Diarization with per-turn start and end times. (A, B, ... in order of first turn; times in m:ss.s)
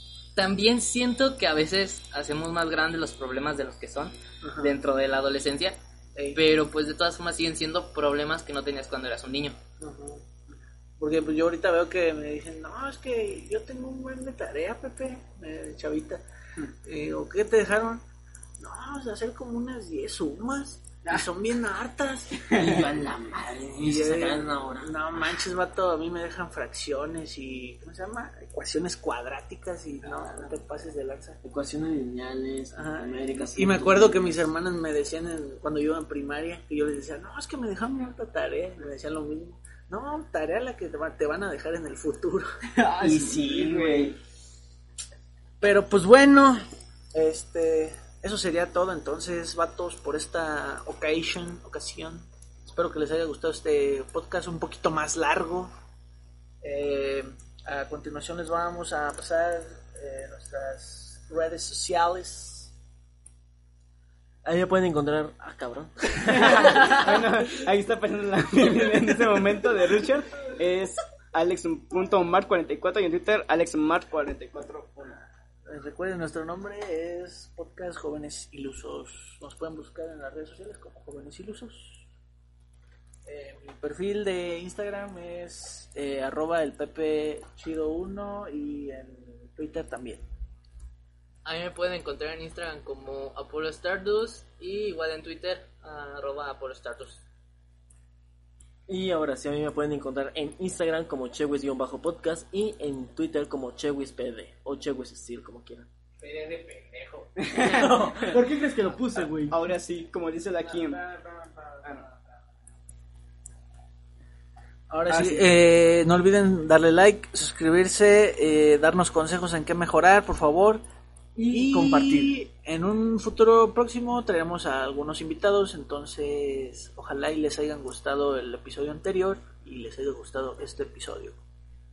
0:00.3-0:05.8 A
0:04.4-0:04.7 B
0:06.3-0:09.6 A
0:09.8-0:10.2 B
0:11.0-0:16.2 B
0:16.8-0:18.0 B
0:18.6-0:22.7 B
0:22.5-0:24.9 C
0:22.5-0:22.9 D
0:23.7-0:31.4 B
0:30.2-0:30.4 D
0:31.4-0:34.4 C
0:32.7-0:44.2 B
0:42.7-0:44.2 D
0:45.6-0:55.7 B
0:56.6-1:02.7 B
1:04.4-1:07.1 C
1:06.3-1:15.2 D
1:15.7-1:22.1 B
1:23.2-1:30.2 B
1:31.4-1:37.2 A
1:38.9-1:45.9 C
1:46.2-1:47.9 A
1:47.4-1:51.0 D
1:47.6-1:48.4 B
1:47.7-1:49.6 C
1:51.0-1:51.9 B
1:54.9-2:00.8 B
1:55.1-1:55.5 D
2:01.5-2:02.3 C
2:01.5-2:11.4 B